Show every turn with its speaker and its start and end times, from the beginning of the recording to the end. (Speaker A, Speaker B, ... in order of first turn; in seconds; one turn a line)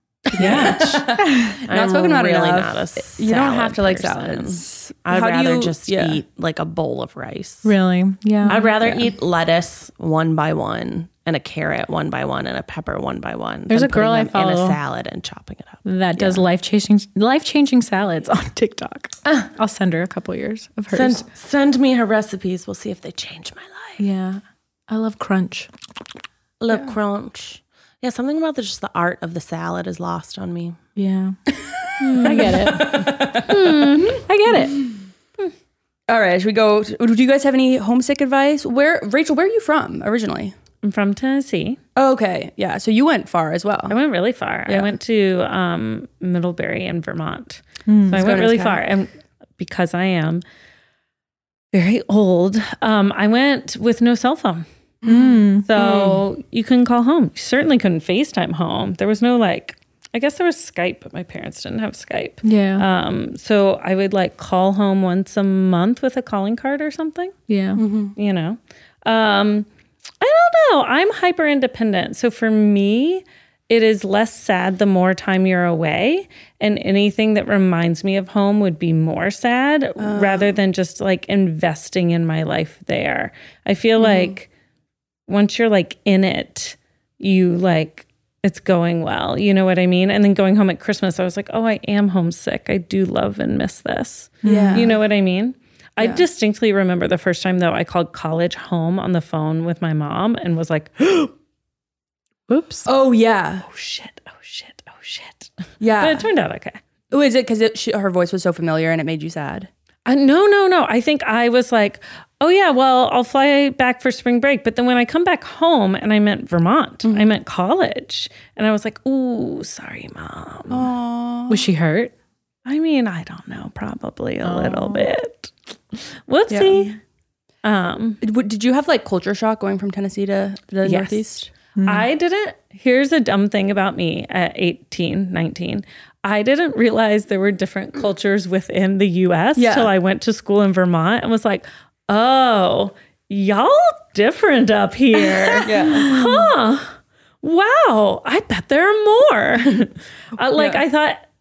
Speaker A: 0.3-6.2
Speaker B: 0.3-1.6
Speaker C: 0.4-0.9
Speaker C: 1.6-7.7
Speaker B: 7.6-8.7
Speaker C: 8.4-15.8
Speaker A: 8.6-9.0
Speaker B: 13.7-14.8
Speaker B: 15.8-21.2
Speaker C: 20.9-24.0
Speaker B: 24.0-25.7
Speaker C: 26.6-30.8
Speaker B: 30.9-31.4
Speaker A: 31.6-34.2
Speaker D: 32.0-34.2
Speaker B: 32.1-33.3
Speaker B: 34.2-34.8
Speaker A: 36.1-40.5
Speaker D: 40.8-41.8
Speaker A: 42.0-44.0
Speaker D: 43.9-50.4
Speaker B: 47.9-48.2
Speaker A: 48.1-48.8
Speaker D: 51.7-54.6
Speaker A: 55.0-56.2
Speaker B: 55.0-55.7
Speaker D: 55.6-67.3
Speaker B: 62.4-62.8
Speaker B: 67.5-67.8
Speaker A: 67.8-68.1
Speaker D: 68.2-69.7
Speaker D: 70.2-84.5
Speaker A: 80.0-80.5
Speaker A: 84.0-84.3
Speaker D: 85.3-101.3
Speaker B: 94.4-94.9
Speaker A: 94.4-95.0
Speaker B: 102.5-102.9
Speaker A: 102.9-103.7
Speaker D: 103.7-106.8
Speaker A: 105.8-106.3
Speaker A: 107.1-109.7
Speaker D: 110.0-120.9
Speaker A: 117.0-117.3
Speaker A: 120.7-121.7
Speaker B: 121.5-122.1
Speaker D: 122.7-127.0
Speaker B: 124.4-125.1
Speaker A: 126.5-126.9
Speaker D: 127.6-128.2
Speaker A: 128.2-131.5
Speaker D: 130.8-131.2
Speaker B: 131.8-132.1
Speaker D: 131.8-151.2
Speaker A: 139.6-139.9
Speaker A: 145.6-146.2